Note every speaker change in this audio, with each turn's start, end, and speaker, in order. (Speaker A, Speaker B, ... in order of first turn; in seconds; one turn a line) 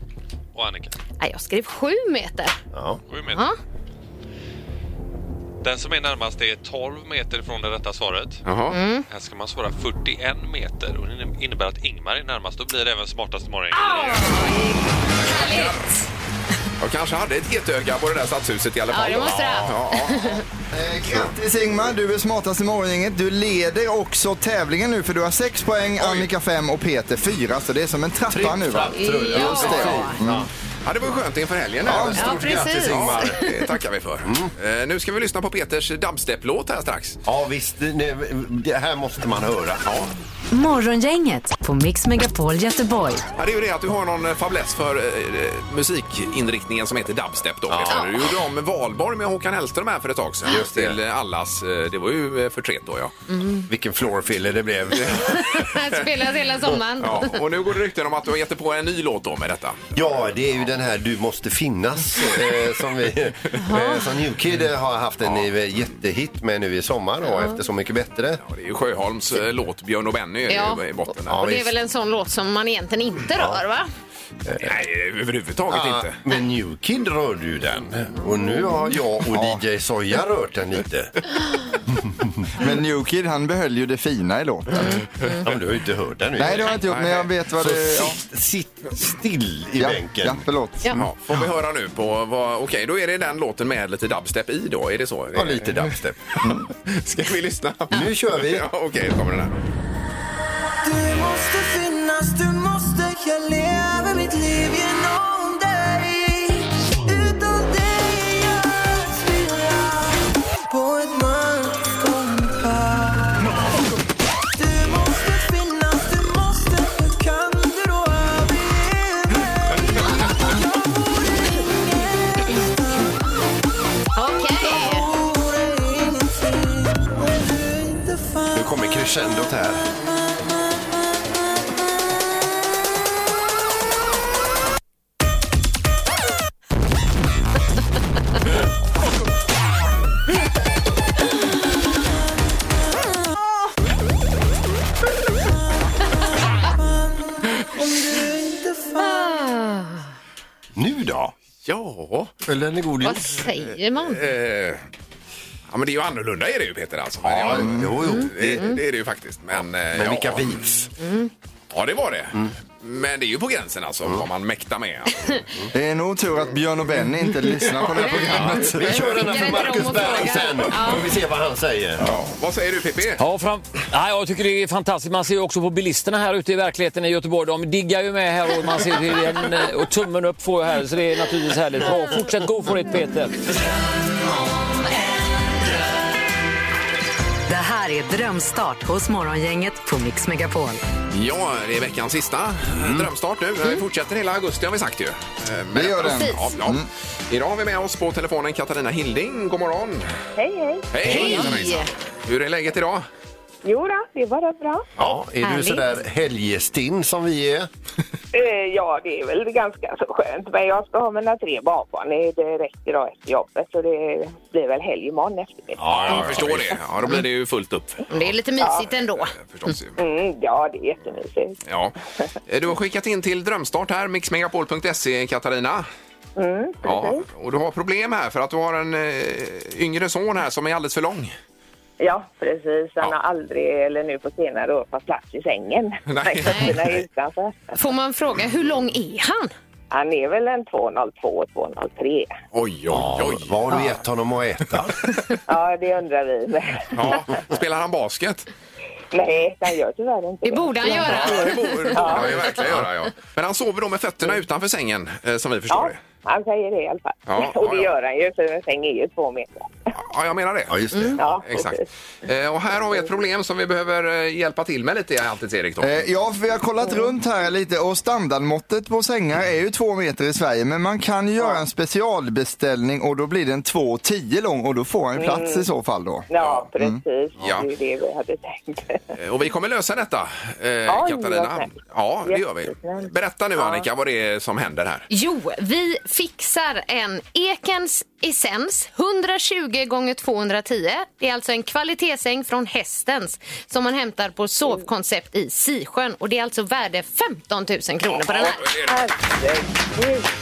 Speaker A: 0.5-0.9
Speaker B: 1.2-2.5
Speaker C: 2.7-3.0
Speaker A: 3.1-3.5
Speaker A: 5.6-8.4
Speaker D: 8.4-8.8
Speaker B: 8.7-9.1
Speaker A: 9.1-14.7
Speaker B: 13.7-16.0
Speaker D: 15.2-15.8
Speaker D: 16.8-20.4
Speaker B: 18.9-20.4
Speaker E: 20.7-30.5
Speaker D: 26.0-26.3
Speaker C: 28.3-30.5
Speaker B: 28.9-30.1
Speaker D: 30.9-37.2
Speaker E: 31.8-32.3
Speaker C: 31.9-33.5
Speaker B: 32.1-33.6
Speaker C: 34.2-34.5
Speaker C: 37.2-39.8
Speaker D: 39.9-40.1
Speaker F: 40.5-43.2
Speaker D: 43.4-53.1
Speaker C: 47.7-48.1
Speaker C: 50.4-51.0
Speaker B: 53.3-53.7
Speaker C: 53.7-55.5
Speaker D: 55.0-55.9
Speaker B: 55.1-57.4
Speaker D: 57.0-59.8
Speaker C: 60.0-68.4
Speaker B: 63.6-64.1
Speaker B: 67.3-67.6
Speaker D: 68.4-71.4
Speaker B: 70.5-73.9
Speaker C: 71.3-71.7
Speaker C: 73.3-73.6
Speaker C: 74.4-74.8
Speaker D: 74.6-76.2
Speaker C: 75.7-81.1
Speaker E: 79.3-79.6
Speaker C: 81.9-82.2
Speaker E: 82.6-85.0
Speaker C: 85.4-86.8
Speaker E: 86.4-88.2
Speaker D: 86.7-87.3
Speaker C: 87.6-90.4
Speaker E: 89.8-90.9
Speaker D: 90.9-99.6
Speaker C: 95.3-96.2
Speaker C: 97.9-98.7
Speaker G: 100.8-113.6
Speaker G: 114.5-120.6
Speaker G: 121.5-123.1
Speaker B: 124.2-125.1
Speaker G: 124.6-128.9
Speaker C: 128.5-129.9
Speaker G: 129.9-130.6
Speaker G: 146.8-149.3
Speaker B: 149.0-150.0
Speaker C: 150.8-151.3
Speaker D: 151.6-152.3
Speaker C: 152.4-153.4
Speaker B: 153.0-154.2
Speaker D: 153.9-154.8
Speaker D: 155.7-160.6
Speaker C: 157.2-158.7
Speaker E: 157.5-157.9
Speaker B: 158.0-158.8
Speaker C: 159.6-160.9
Speaker B: 161.0-161.3
Speaker D: 161.7-165.4
Speaker E: 165.7-169.0
Speaker B: 167.8-171.1
Speaker C: 168.3-172.1
Speaker D: 172.0-173.2
Speaker H: 173.2-183.4
Speaker F: 187.5-190.8
Speaker D: 191.1-200.1
Speaker C: 192.7-193.0
Speaker E: 195.7-196.9
Speaker B: 196.0-196.6
Speaker I: 200.4-201.4
Speaker D: 200.9-203.1
Speaker B: 201.0-201.9
Speaker I: 203.6-204.9
Speaker C: 205.0-207.7
Speaker B: 205.4-205.8
Speaker I: 208.3-216.3
Speaker C: 215.8-216.7
Speaker D: 215.9-218.4
Speaker B: 218.1-219.7
Speaker I: 218.6-218.8
Speaker D: 219.0-219.9
Speaker I: 220.0-221.6
Speaker D: 221.7-221.9
Speaker D: 222.5-225.9
Speaker I: 226.4-227.2
Speaker D: 226.8-231.3
Speaker I: 232.0-237.7
Speaker D: 236.1-237.0
Speaker B: 236.5-236.7
Speaker B: 237.7-239.5
Speaker I: 239.9-242.3
Speaker D: 242.5-244.0
Speaker C: 242.9-245.1
Speaker I: 245.5-247.2
Speaker D: 246.9-248.5
Speaker I: 249.1-252.4
Speaker B: 250.4-252.3
Speaker D: 250.8-256.0
Speaker C: 252.2-252.9
Speaker I: 255.7-259.7
Speaker D: 257.3-257.9
Speaker D: 259.9-266.1
Speaker C: 260.7-261.2
Speaker I: 261.2-261.8
Speaker E: 265.8-277.0
Speaker I: 275.1-275.7
Speaker I: 276.3-279.0
Speaker D: 276.4-276.7
Speaker D: 277.4-277.7
Speaker D: 279.1-285.1
Speaker I: 280.9-283.9
Speaker B: 285.1-298.6
Speaker I: 298.1-300.3
Speaker D: 298.4-299.0